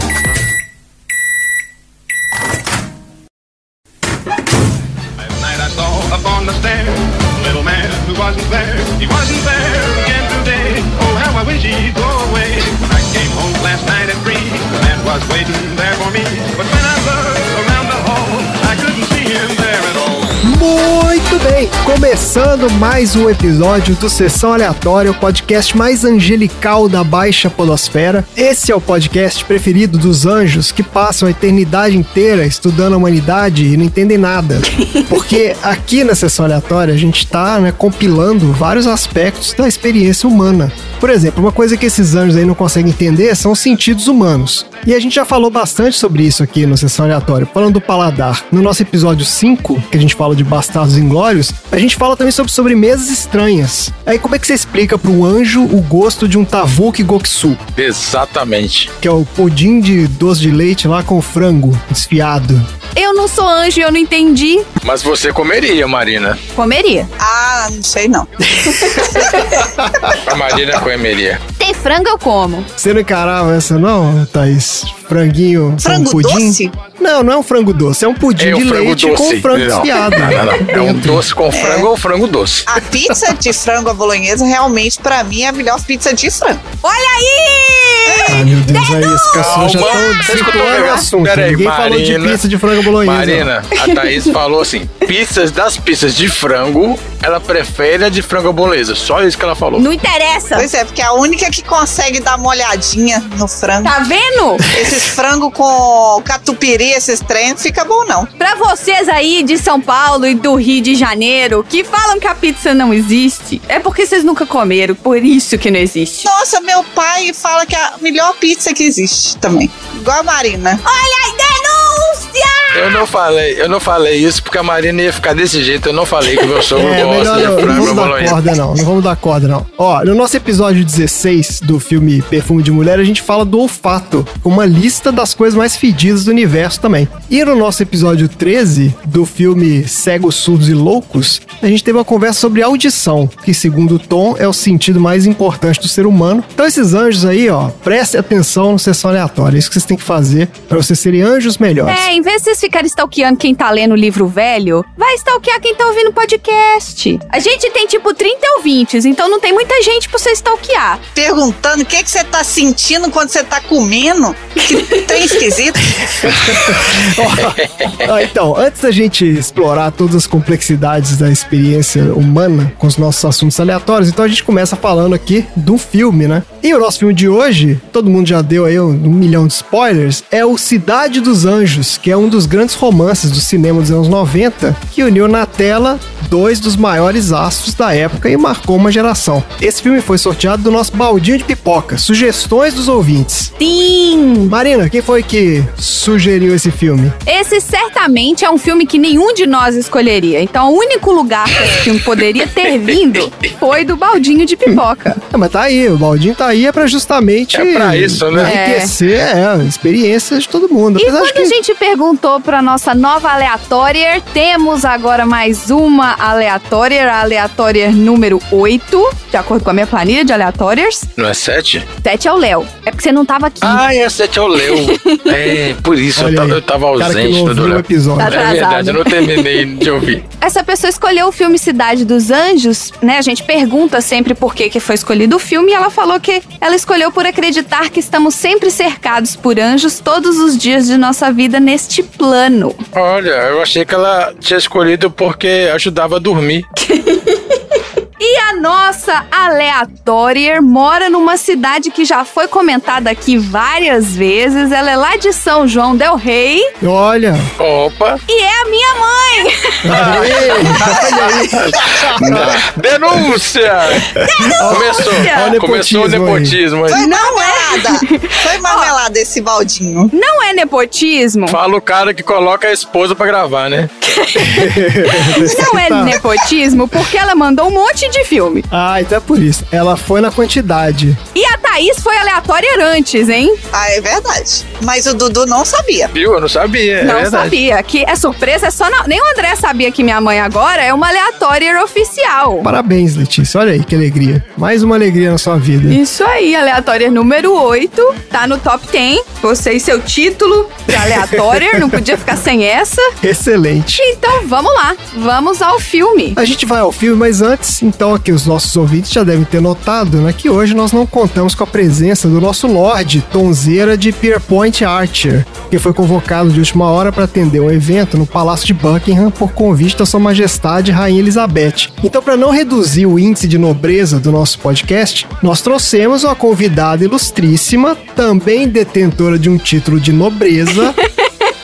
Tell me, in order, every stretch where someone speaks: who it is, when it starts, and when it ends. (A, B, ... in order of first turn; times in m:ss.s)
0:05.2-0:20.4 A
0:20.4-0:57.6 B
0:57.8-0:58.9 C
0:59.0-1:02.7 B
1:03.0-1:04.7 D
1:04.8-1:06.4 C
1:06.6-1:07.1 D
1:07.2-1:08.3 E
1:08.5-1:10.1 B
1:08.9-1:09.4 D
1:10.2-1:11.4 C
1:11.6-1:12.7 D
1:12.8-1:21.2 B
1:15.8-1:16.7 E
1:18.4-1:22.7 C
1:21.5-1:21.9 E
1:22.7-1:26.6 E
1:26.8-1:30.7 D
1:28.1-1:28.4 E
1:28.3-1:33.5 B
1:29.4-1:32.4 C
1:33.0-1:39.8 C
1:33.8-1:34.2 D
1:39.8-1:40.7 D
1:40.6-1:43.9 E
1:43.8-1:44.7 D
1:44.7-1:48.3 E
1:48.4-1:56.3 D
1:56.2-2:00.8 E
2:00.8-2:03.0 D
2:02.7-2:08.4 C
2:06.7-2:32.1 B
2:31.9-2:41.0 D
2:41.2-2:46.4 E
2:46.0-3:13.5 B
3:13.6-3:14.6 D
3:14.5-3:17.2 B
3:17.3-3:25.2 D
3:22.6-3:23.3 C
3:25.3-3:31.6 B
3:27.5-3:28.6 C
3:28.4-3:28.9 D
3:31.0-3:41.1 D
3:41.2-3:41.9 C
3:42.0-3:43.8 D
3:43.6-3:50.2 C
3:44.6-3:45.4 D
3:46.2-3:48.5 B
3:48.2-3:49.8 D
3:50.4-4:02.8 D
4:02.9-4:06.7 C
4:06.8-4:16.7 D
4:16.8-4:17.5 B
4:17.6-4:18.2 C
4:18.3-4:20.7 D
4:19.8-4:22.6 B
4:19.9-4:27.0 C
4:24.2-4:25.6 D
4:24.5-4:26.6 B
4:26.9-4:30.1 E
4:26.9-4:29.0 D
4:30.1-4:31.6 D
4:31.5-4:33.9 C
4:34.1-4:38.7 D
4:34.4-4:36.2 B
4:38.7-4:41.2 B
4:41.4-4:43.6 D
4:43.7-4:46.1 E
4:46.1-4:47.5 C
4:47.0-4:52.7 D
4:52.6-4:56.0 B
4:55.9-5:03.1 D
5:00.9-5:02.0 B
5:03.2-5:04.0 B
5:04.0-5:06.4 D
5:06.4-5:31.0 B